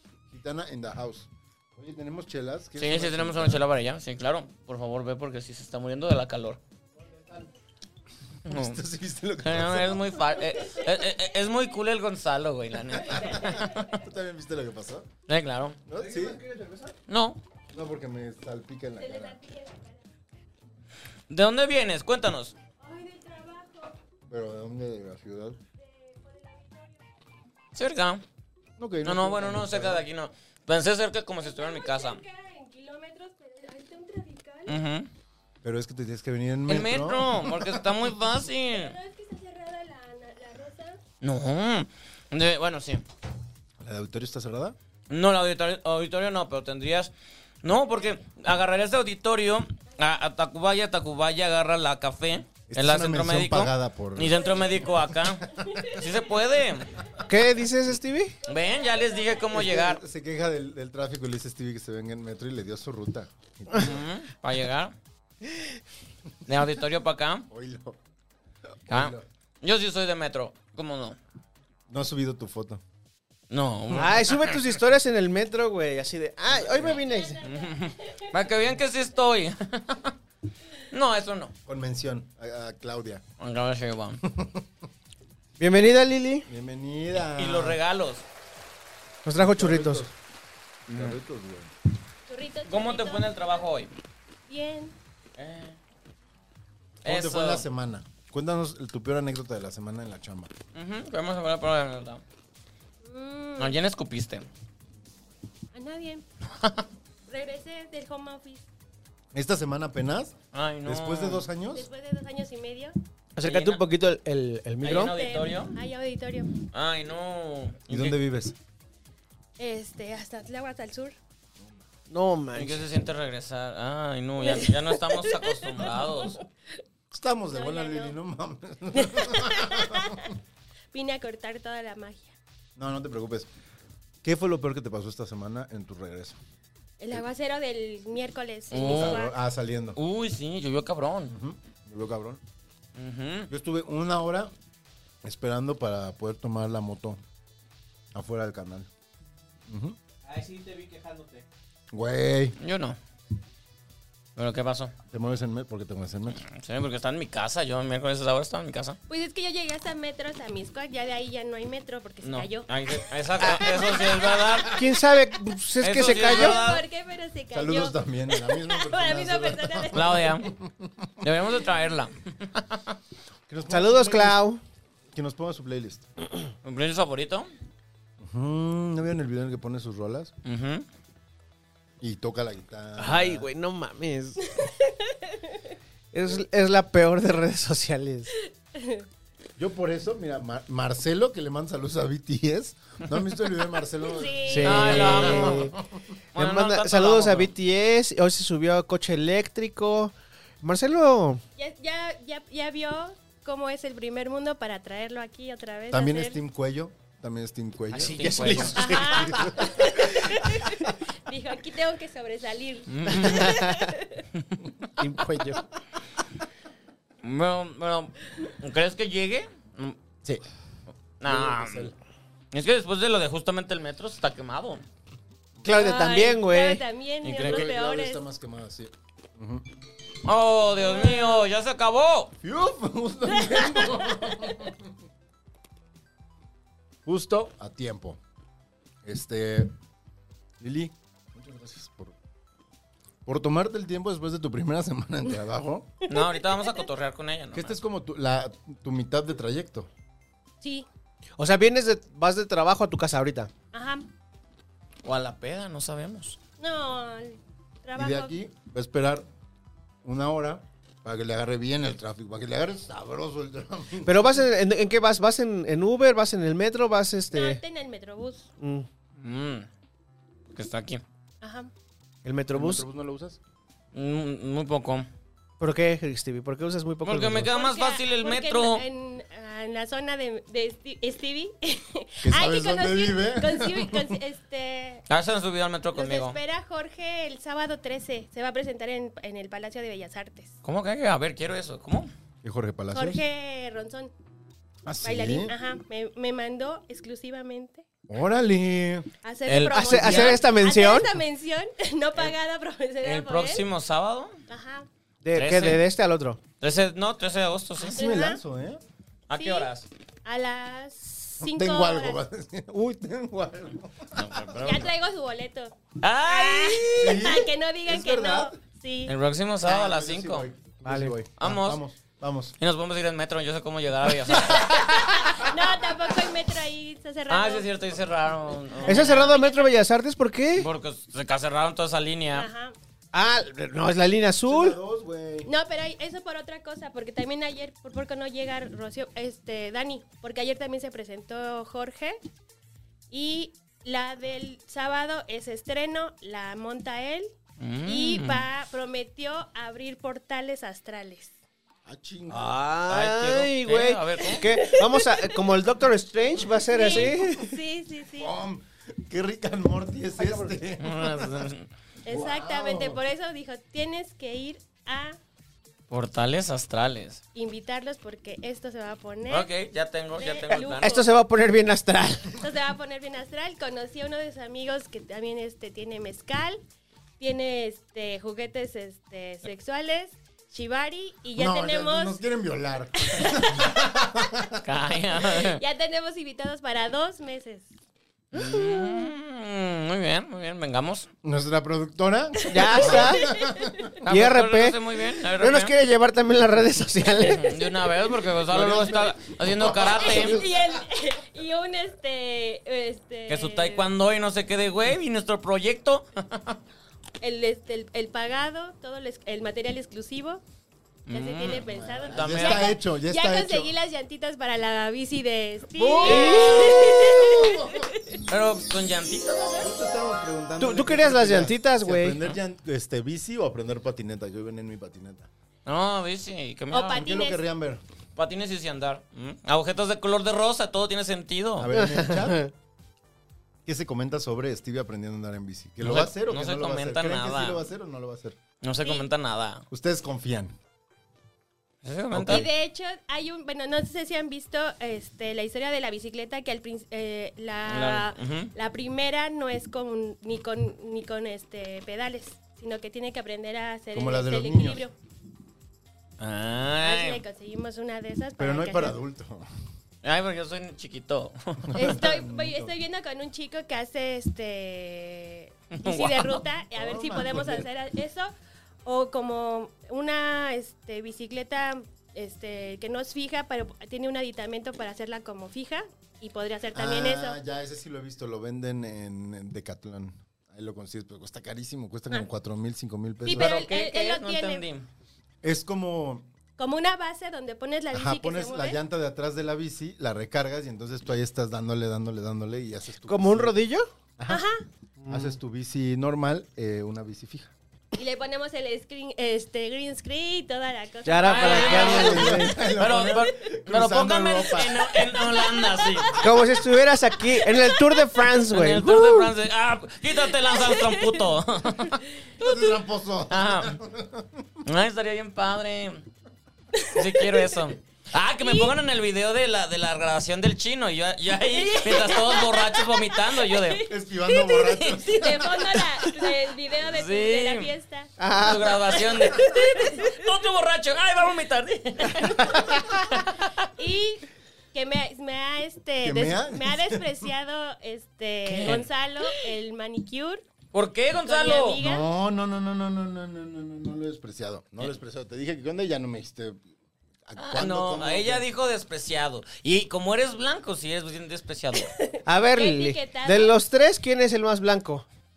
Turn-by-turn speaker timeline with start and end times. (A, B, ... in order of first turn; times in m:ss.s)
0:00.3-0:03.7 A
0:02.8-0:06.6 B
0:08.5-0:08.8 B
0:08.5-0:10.2 A
0:09.4-0:13.9 B
0:13.1-0:15.1 A
0:15.3-0:15.8 B
0:15.9-0:16.4 A
0:15.9-0:17.0 C
0:17.1-0:17.4 B
0:17.7-0:19.4 A
0:19.0-0:20.1 D
0:21.3-0:22.6 B
0:22.7-0:24.0 D
0:24.3-0:25.6 A
0:25.8-0:27.0 D
0:27.8-0:28.2 B
0:28.8-0:30.1 A
0:29.0-0:32.2 B
0:31.4-0:34.8 D
0:34.7-0:35.1 B
0:35.6-0:38.0 A
0:36.7-0:39.0 B
0:38.7-0:41.0 D
0:41.2-0:43.0 B
0:43.8-0:44.8 A
0:45.1-0:47.1 B
0:47.6-0:56.9 B
0:52.7-0:54.8 A
0:54.4-0:56.4 D
0:57.2-0:58.4 C
0:58.4-0:59.5 D
0:58.5-1:00.0 B
0:59.5-1:04.0 A
1:03.7-1:04.9 B
1:06.5-1:07.5 B
1:07.5-1:08.0 A
1:08.9-1:09.2 A
1:08.9-1:11.2 B
1:11.9-1:12.8 A
1:13.5-1:14.6 B
1:13.9-1:17.4 C
1:16.5-1:17.0 A
1:16.8-1:18.4 D
1:17.4-1:20.2 B
1:20.9-1:21.5 B
1:21.7-1:23.2 A
1:23.4-1:24.2 B
1:24.2-1:24.7 A
1:25.6-1:26.5 C
1:26.5-1:27.8 A
1:27.4-1:28.2 B
1:29.2-1:30.1 C
1:29.4-1:30.2 A
1:30.9-1:31.2 B
1:30.9-1:31.7 A
1:32.3-1:33.7 D
1:32.6-1:33.9 B
1:34.5-1:35.0 D
1:35.4-1:35.8 B
1:37.0-1:40.5 A
1:37.0-1:37.6 B
1:40.8-1:42.2 B
1:43.0-1:43.8 D
1:43.6-1:44.5 B
1:45.7-1:46.2 D
1:47.3-1:48.7 D
1:49.3-1:51.9 A
1:50.5-1:51.5 B
1:51.7-1:53.0 D
1:53.4-1:55.1 C
1:53.4-1:53.8 B
1:54.8-1:55.8 B
1:55.1-1:56.5 D
1:56.7-1:58.2 B
1:57.9-1:58.6 A
1:59.6-2:01.2 D
2:02.1-2:02.8 C
2:02.6-2:06.4 B
2:04.4-2:06.4 D
2:07.1-2:10.3 A
2:07.5-2:08.2 D
2:09.0-2:10.3 D
2:10.9-2:12.4 D
2:12.8-2:13.5 A
2:14.2-2:16.4 A
2:17.0-2:19.4 D
2:18.7-2:19.3 B
2:18.8-2:20.0 A
2:20.0-2:21.3 B
2:21.3-2:22.4 A
2:23.0-2:23.5 B
2:23.5-2:24.5 A
2:25.2-2:27.2 A
2:28.1-2:28.9 A
2:29.7-2:30.0 A
2:30.2-2:31.5 C
2:31.9-2:32.6 A
2:32.6-2:33.0 B
2:34.4-2:34.9 B
2:35.1-2:36.4 A
2:36.4-2:39.0 B
2:39.1-2:44.7 D
2:42.2-2:44.8 B
2:44.7-2:46.6 C
2:45.8-2:46.9 B
2:46.0-2:50.3 D
2:47.5-2:51.3 A
2:49.9-2:50.5 B
2:51.2-2:52.9 B
2:53.5-2:54.4 A
2:53.7-2:54.6 C
2:55.1-2:56.0 A
2:56.6-2:57.5 B
2:58.2-3:00.3 A
3:00.4-3:00.8 B
3:02.0-3:03.5 A
3:03.0-3:04.5 C
3:06.1-3:08.3 C
3:08.7-3:09.1 D
3:09.6-3:16.0 A
3:14.0-3:15.3 D
3:14.5-3:15.8 C
3:14.6-3:15.7 B
3:16.4-3:17.5 B
3:16.4-3:21.4 C
3:21.6-3:26.4 D
3:25.9-3:29.9 A
3:27.9-3:29.2 B
3:27.9-3:29.7 C
3:28.8-3:34.2 D
3:32.9-3:33.6 B
3:33.4-3:33.7 C
3:35.0-3:35.6 C
3:37.2-3:40.0 B
3:41.2-3:41.9 B
3:41.2-3:41.9 A
3:42.5-3:44.8 B
3:45.6-3:46.8 C
3:45.7-3:48.2 D
3:47.2-3:47.7 B
3:47.4-3:49.7 A
3:50.2-3:52.3 B
3:50.8-3:51.4 D
3:52.4-3:54.9 A
3:53.3-3:54.3 D
3:57.0-3:58.2 A
3:59.0-3:59.7 A
4:00.6-4:02.2 A
4:03.3-4:05.9 A
4:06.1-4:07.8 B
4:06.1-4:06.8 D
4:07.5-4:09.9 A
4:10.6-4:10.9 D
4:11.4-4:13.5 C
4:13.7-4:14.1 D
4:15.0-4:16.4 B
4:16.6-4:18.4 D
4:18.0-4:19.3 A
4:20.0-4:24.4 A
4:24.0-4:27.6 C
4:27.3-4:28.5 D
4:28.6-4:28.9 C
4:29.2-4:29.7 B
4:30.5-4:31.0 B
4:31.4-4:31.7 D
4:32.2-4:32.9 C
4:32.5-4:33.4 A
4:33.9-4:35.1 B
4:35.6-4:37.5 C
4:37.0-4:38.8 B
4:37.5-4:45.0 D
4:42.2-4:44.2 A
4:45.1-4:46.4 B
4:45.9-4:50.6 D
4:50.6-4:52.1 B
4:52.4-4:53.2 A
4:52.9-4:54.1 D
4:54.9-4:55.6 A
4:55.0-4:57.8 D
4:58.1-4:59.1 A
4:59.2-5:03.7 D
4:59.5-5:00.4 B
4:59.7-5:01.1 C
5:03.0-5:04.4 B
5:04.5-5:04.9 D
5:05.2-5:06.4 C
5:05.4-5:05.8 B
5:06.6-5:08.0 B
5:07.8-5:08.8 A
5:07.9-5:08.4 D
5:09.3-5:09.9 B
5:09.3-5:09.7 D
5:10.2-5:12.2 D
5:11.4-5:14.8 A
5:14.1-5:14.9 B
5:14.6-5:19.1 D
5:16.0-5:17.3 B
5:17.0-5:18.6 A
5:19.1-5:20.5 B
5:19.6-5:22.6 A
5:20.8-5:21.2 C
5:21.4-5:21.8 B
5:22.6-5:25.4 B
5:24.2-5:27.7 D
5:27.3-5:29.5 B
5:28.8-5:29.7 D
5:28.9-5:30.7 C
5:30.6-5:32.5 B
5:32.3-5:32.8 D
5:33.1-5:34.8 C
5:34.4-5:35.5 A
5:35.4-5:42.2 D
5:43.1-5:47.3 D
5:47.6-5:48.5 B
5:47.8-5:51.4 D
5:51.9-5:52.5 A
5:52.3-5:57.6 C
5:52.9-5:54.6 B
5:54.5-5:55.4 D
5:56.7-5:58.3 D
5:58.2-6:01.4 A
6:00.8-6:01.7 B
6:02.1-6:05.2 D
6:02.1-6:03.0 A
6:05.9-6:07.2 B
6:07.4-6:09.5 D
6:09.3-6:11.0 B
6:10.2-6:11.1 D
6:10.8-6:12.4 C
6:12.4-6:16.6 D
6:17.2-6:22.2 D
6:21.4-6:24.6 A
6:23.0-6:24.1 D
6:24.6-6:25.6 B
6:25.3-6:27.7 D
6:28.3-6:31.1 B
6:31.2-6:33.9 A
6:32.4-6:33.9 D
6:32.5-6:33.3 C
6:34.0-6:35.7 B
6:34.1-6:34.8 C
6:35.4-6:37.6 C
6:37.2-6:40.4 B
6:37.5-6:38.0 D
6:38.5-6:40.8 A
6:39.9-6:43.9 D
6:43.3-6:46.6 B
6:47.2-6:50.4 D
6:51.1-6:52.8 B
6:51.1-6:58.2 D
6:51.6-6:53.7 A
6:55.8-6:57.9 A
6:55.9-6:57.1 B
6:56.0-6:56.7 C
6:58.3-6:59.7 B
6:59.6-7:05.3 A
7:00.6-7:02.2 C
7:05.7-7:07.1 B
7:06.7-7:07.4 D
7:06.9-7:07.8 A
7:08.2-7:11.7 B
7:11.6-7:12.5 A
7:11.7-7:12.5 C
7:13.6-7:18.4 A
7:15.8-7:17.6 B
7:18.6-7:19.6 B
7:18.8-7:19.1 D
7:19.7-7:20.6 A
7:21.8-7:22.5 B
7:22.1-7:22.5 A
7:22.2-7:35.0 D
7:27.7-7:28.5 B
7:33.9-7:34.8 A
7:36.2-7:37.2 B
7:36.8-7:39.0 D
7:38.4-7:39.5 A
7:40.0-7:41.9 B
7:41.7-7:42.7 A
7:41.7-7:48.3 D
7:45.8-7:46.4 B
7:46.7-7:47.7 A
7:48.8-7:57.4 D
7:56.7-8:03.6 A
8:03.2-8:04.6 D
8:03.3-8:04.9 B
8:05.4-8:06.3 A
8:06.6-8:08.8 D
8:07.9-8:13.6 A
8:13.1-8:13.9 C
8:14.2-8:14.4 A
8:14.3-8:14.6 D
8:15.0-8:15.4 C
8:15.1-8:17.5 A
8:18.0-8:22.1 D
8:21.0-8:22.6 C
8:21.2-8:26.2 B
8:21.7-8:25.0 A
8:24.9-8:26.5 D
8:26.2-8:29.3 C
8:27.1-8:28.4 D
8:28.5-8:32.0 B
8:30.2-8:31.3 D
8:32.2-8:32.6 D
8:32.4-8:34.5 A
8:33.3-8:33.8 B
8:34.6-8:36.0 B
8:36.8-8:37.5 D
8:36.9-8:43.8 B
8:38.4-8:38.7 D
8:41.5-8:50.3 D
8:43.8-8:45.8 A
8:46.8-8:47.7 B
8:48.2-8:48.8 C
8:48.4-8:53.5 B
8:52.0-8:53.1 D
8:53.8-9:00.4 D
8:56.0-8:57.2 A
8:58.5-8:59.4 B
9:00.7-9:01.8 B
9:01.2-9:02.1 D
9:01.8-9:06.6 A
9:07.3-9:08.5 A
9:07.4-9:11.9 B
9:11.8-9:13.5 D
9:12.3-9:15.0 C